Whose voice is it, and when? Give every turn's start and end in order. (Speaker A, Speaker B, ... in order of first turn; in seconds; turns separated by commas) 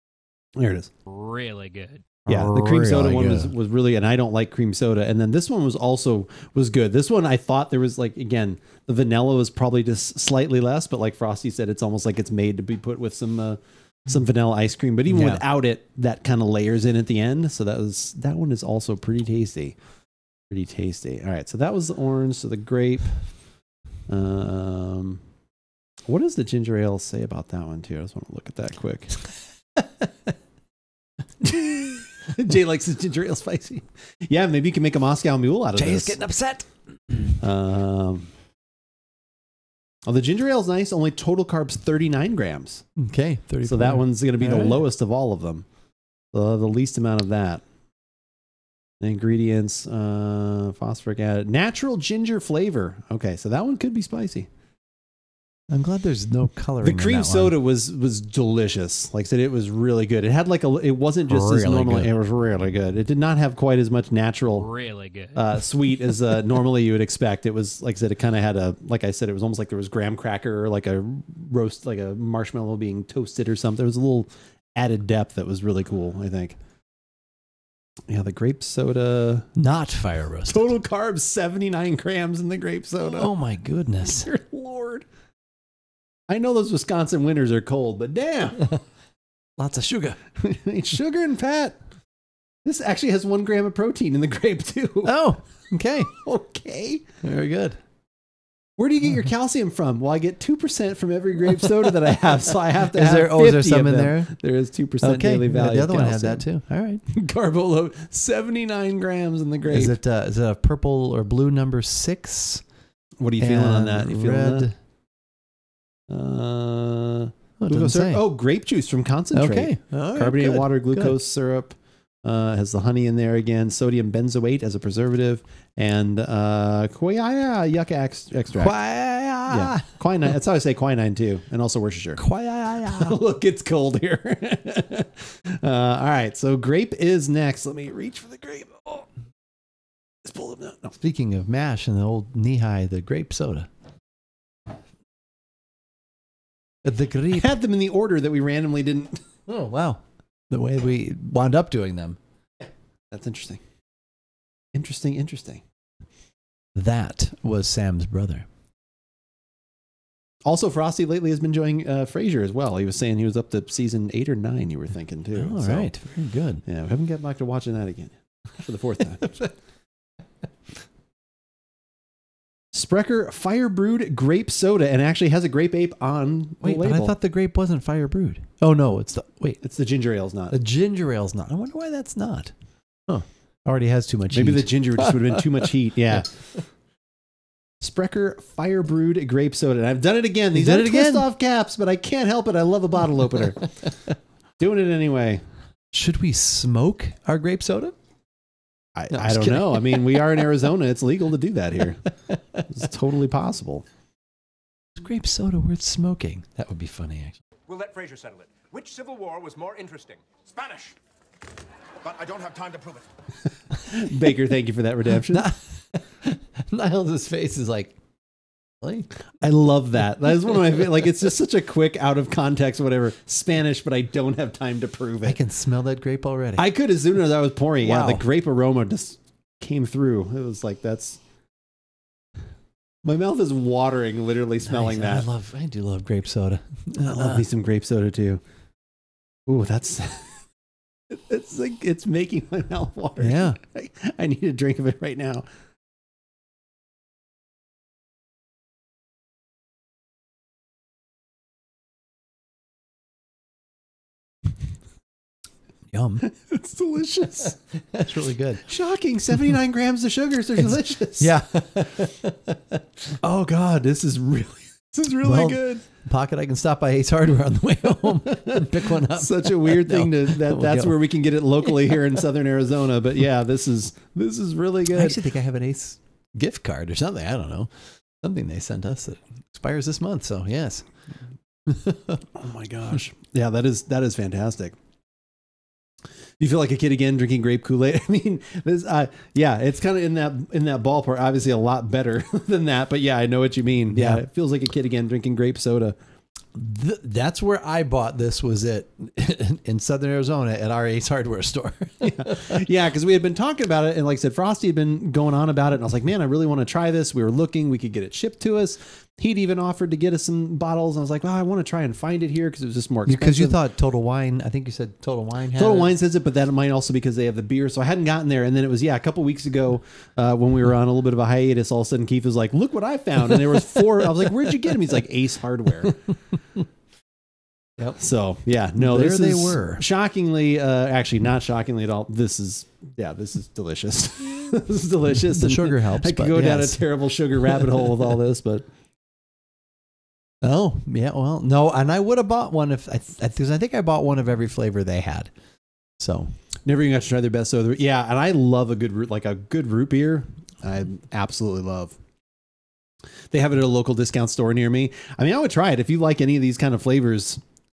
Speaker A: 0.6-0.9, Speaker B: 1.1-2.0, Speaker C: 2.3-3.5, Speaker A: 2.3-19.8, Speaker C: 15.1-15.4, Speaker A: 20.5-23.2, Speaker A: 24.1-25.2, Speaker A: 26.1-29.2, Speaker A: 31.4-36.2, Speaker C: 35.8-37.4, Speaker A: 37.4-38.3, Speaker A: 40.1-42.9, Speaker C: 43.0-44.8, Speaker A: 43.7-45.7, Speaker A: 46.3-47.6, Speaker A: 49.0-54.5, Speaker C: 55.7-57.5, Speaker A: 56.8-64.7, Speaker C: 61.3-62.1, Speaker B: 64.6-65.5, Speaker A: 65.3-76.6, Speaker A: 78.1-79.5, Speaker C: 79.6-80.7, Speaker A: 80.5-83.3, Speaker C: 83.0-84.3, Speaker A: 84.0-85.1, Speaker A: 86.3-88.7, Speaker C: 89.6-90.2, Speaker A: 90.4-91.8, Speaker A: 92.7-95.1, Speaker C: 95.0-96.1, Speaker A: 96.1-97.0, Speaker C: 97.2-97.8, Speaker A: 98.8-106.5, Speaker C: 102.9-104.3, Speaker C: 105.0-107.0, Speaker A: 107.1-110.0, Speaker C: 109.7-112.7, Speaker A: 113.2-114.7, Speaker C: 113.4-114.8, Speaker A: 116.1-128.8, Speaker C: 117.6-118.2, Speaker C: 119.3-121.2, Speaker C: 128.6-129.9, Speaker A: 129.5-132.2, Speaker C: 132.2-133.2, Speaker A: 132.8-139.1, Speaker A: 140.2-141.0, Speaker C: 141.0-143.7, Speaker C: 146.8-147.5, Speaker A: 147.3-149.2, Speaker C: 149.5-152.2, Speaker A: 153.1-153.6, Speaker A: 154.7-155.6, Speaker C: 156.8-158.5, Speaker A: 160.4-165.9, Speaker C: 165.4-166.7, Speaker A: 166.7-169.3, Speaker C: 169.3-169.5, Speaker A: 172.7-177.2, Speaker C: 176.6-179.6, Speaker A: 179.6-180.6, Speaker C: 180.5-182.5, Speaker C: 183.1-186.6, Speaker A: 184.3-186.3, Speaker A: 187.8-193.6, Speaker C: 190.5-191.2, Speaker A: 194.6-195.4, Speaker C: 195.9-197.9, Speaker A: 199.0-202.0, Speaker C: 199.1-200.4, Speaker C: 202.3-202.7, Speaker A: 202.7-203.8, Speaker C: 205.0-207.4, Speaker B: 207.7-211.0, Speaker B: 212.0-213.1, Speaker A: 213.8-215.5, Speaker C: 215.3-218.0, Speaker C: 218.8-219.1, Speaker A: 219.4-225.4, Speaker C: 225.2-226.7, Speaker A: 226.6-231.2, Speaker C: 227.8-228.2, Speaker A: 233.0-235.3, Speaker C: 234.7-237.4, Speaker A: 237.0-238.4, Speaker A: 239.5-240.4, Speaker A: 241.1-245.4, Speaker C: 243.2-243.6, Speaker C: 255.9-256.3, Speaker A: 256.2-257.6, Speaker C: 257.8-258.6, Speaker A: 258.7-261.3, Speaker C: 261.2-263.1, Speaker A: 263.2-265.9, Speaker C: 265.2-271.0, Speaker A: 268.0-275.2, Speaker C: 274.9-280.9, Speaker C: 281.7-282.2, Speaker A: 282.4-284.8, Speaker A: 286.4-296.0, Speaker C: 293.9-294.2, Speaker C: 296.6-302.6, Speaker A: 302.0-313.6, Speaker C: 313.1-315.9, Speaker A: 315.6-326.0, Speaker A: 328.0-338.7, Speaker C: 328.8-329.8, Speaker C: 335.3-336.9, Speaker C: 337.4-337.8, Speaker C: 340.4-345.3, Speaker C: 346.0-346.3, Speaker A: 346.7-352.0, Speaker A: 353.3-357.4